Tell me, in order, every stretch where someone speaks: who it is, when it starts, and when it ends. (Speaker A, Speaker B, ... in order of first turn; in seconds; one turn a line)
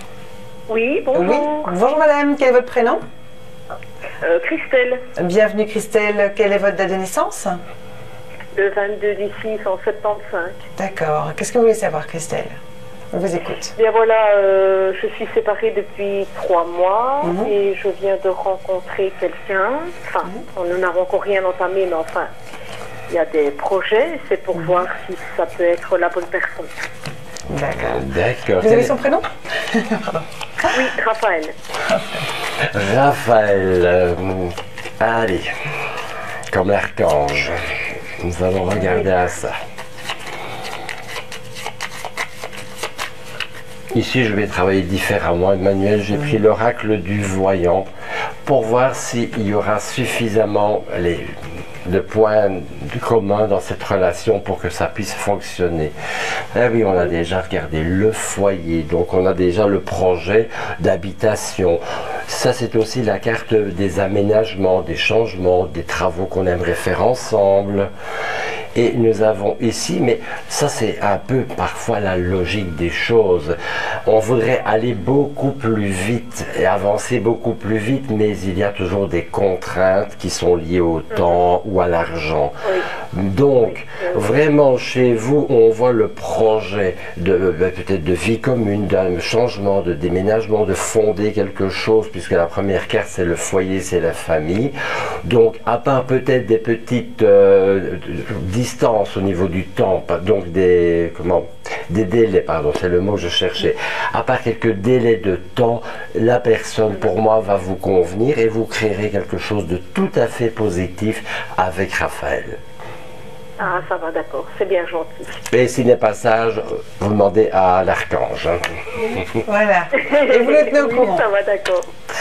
Speaker A: 0.7-1.7
Speaker B: 1.1-3.0
Speaker A: 4.2-5.0
Speaker B: 5.2-7.6
Speaker A: 8.6-10.6
Speaker B: 10.8-12.6
Speaker B: 13.1-13.7
Speaker A: 13.8-22.3
Speaker B: 17.2-17.5
Speaker A: 23.1-26.7
Speaker B: 27.5-28.0
Speaker C: 27.7-29.0
Speaker B: 28.6-30.2
Speaker A: 30.7-31.5
Speaker B: 31.9-32.3
Speaker C: 32.6-35.5
Speaker C: 36.5-37.6
Speaker C: 38.2-39.5
Speaker C: 43.9-47.9
Speaker C: 48.5-55.9
Speaker C: 56.5-67.9
Speaker C: 68.8-82.6
Speaker A: 81.1-81.4
Speaker A: 82.6-82.9
Speaker C: 83.1-112.6
Speaker A: 83.7-84.2
Speaker A: 113.6-115.4
Speaker C: 115.5-119.4
Speaker B: 119.2-121.2
Speaker A: 119.9-121.9